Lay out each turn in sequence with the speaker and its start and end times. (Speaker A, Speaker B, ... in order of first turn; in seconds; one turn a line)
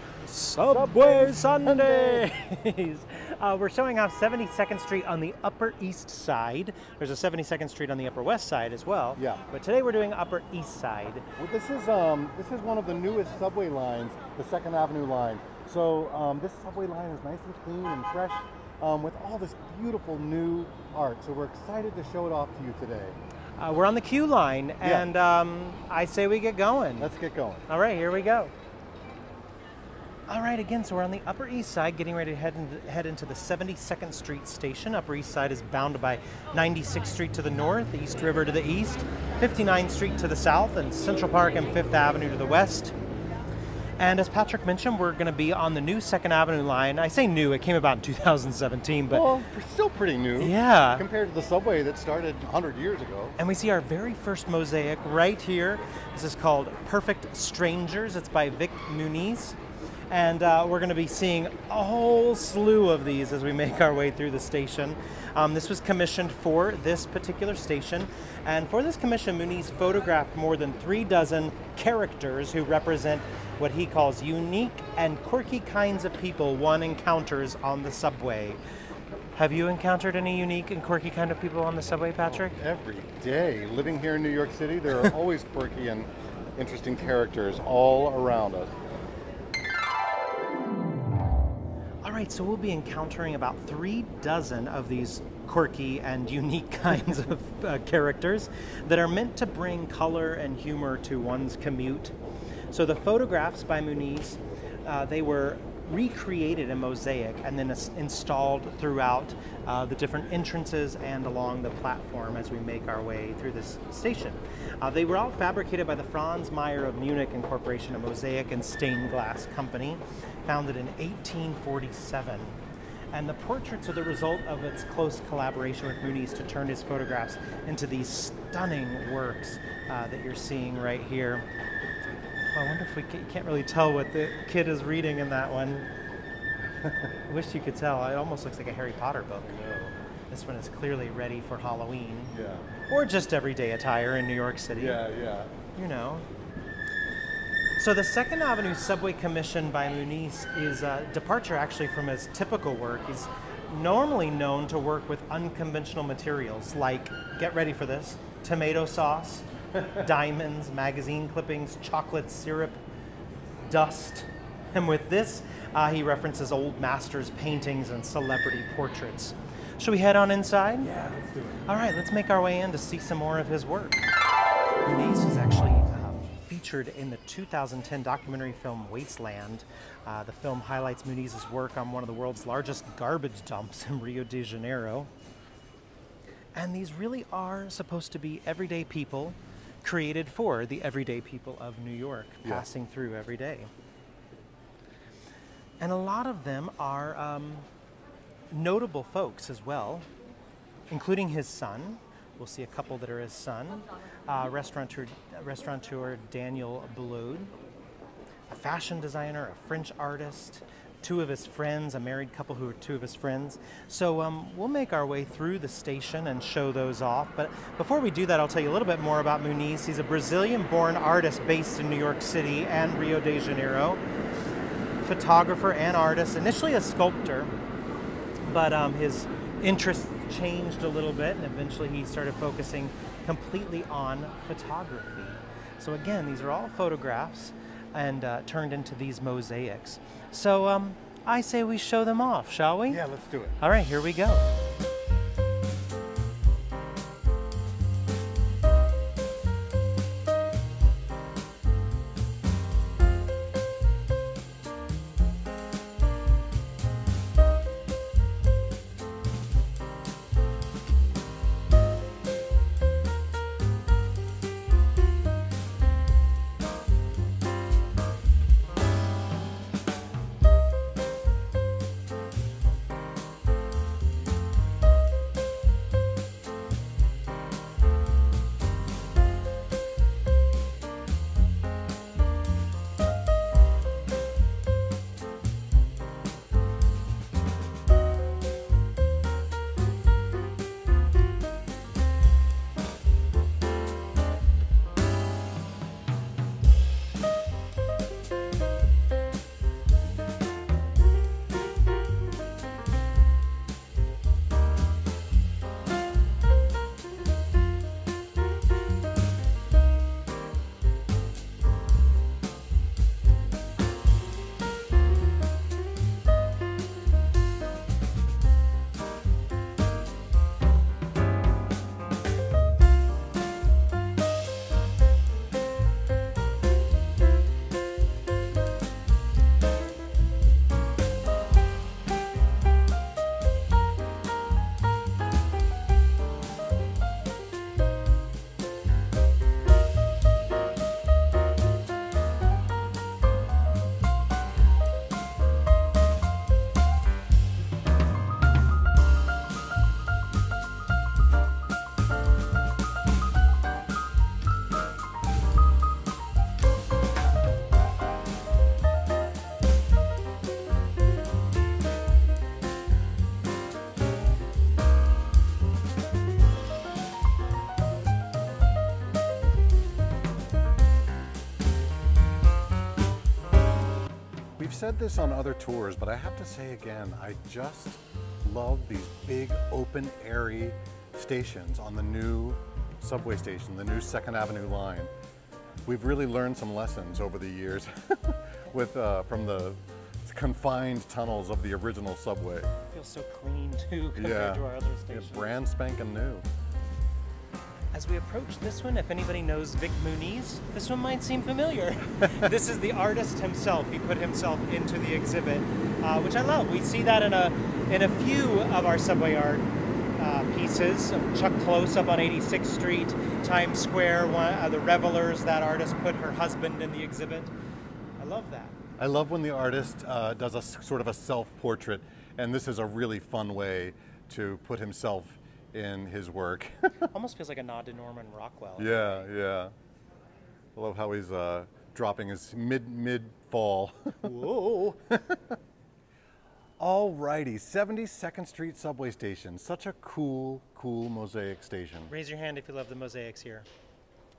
Speaker A: 0.2-11.3
Speaker B: 0.7-2.2
Speaker B: 9.2-9.4
Speaker B: 11.4-23.1
Speaker A: 23.6-27.1
Speaker B: 24.8-25.1
Speaker B: 27.0-27.7
Speaker A: 27.7-28.5
Speaker A: 30.3-42.9
Speaker A: 44.0-49.3
Speaker B: 49.1-53.4
Speaker A: 50.4-51.0
Speaker A: 53.4-59.6
Speaker A: 60.1-78.6
Speaker A: 79.3-82.5
Speaker B: 82.2-88.7
Speaker A: 92.0-102.1
Speaker A: 102.7-122.6
Speaker A: 123.1-131.4
Speaker A: 132.5-135.9
Speaker A: 137.2-139.5
Speaker B: 139.4-139.9
Speaker A: 140.3-142.3
Speaker B: 142.3-142.7
Speaker A: 142.8-145.0
Speaker B: 144.7-145.5
Speaker A: 145.7-146.2
Speaker A: 147.8-162.8
Speaker A: 163.6-174.0
Speaker B: 171.0-171.5
Speaker A: 174.8-185.1
Speaker A: 186.5-193.7
Speaker A: 195.8-197.7
Speaker A: 198.5-200.1
Speaker A: 200.9-207.5
Speaker A: 208.5-224.0
Speaker A: 225.0-227.5
Speaker A: 228.5-243.0
Speaker B: 242.9-243.6
Speaker A: 243.6-244.5
Speaker B: 374.6-385.1
Speaker B: 385.9-392.7
Speaker A: 392.9-395.5
Speaker B: 394.1-396.4
Speaker A: 397.9-417.5
Speaker A: 418.2-418.8
Speaker B: 419.0-426.9
Speaker A: 427.1-429.2
Speaker B: 428.8-429.7
Speaker B: 430.8-434.5
Speaker A: 434.2-435.0
Speaker B: 435.1-435.6
Speaker B: 436.8-442.1
Speaker A: 442.1-443.7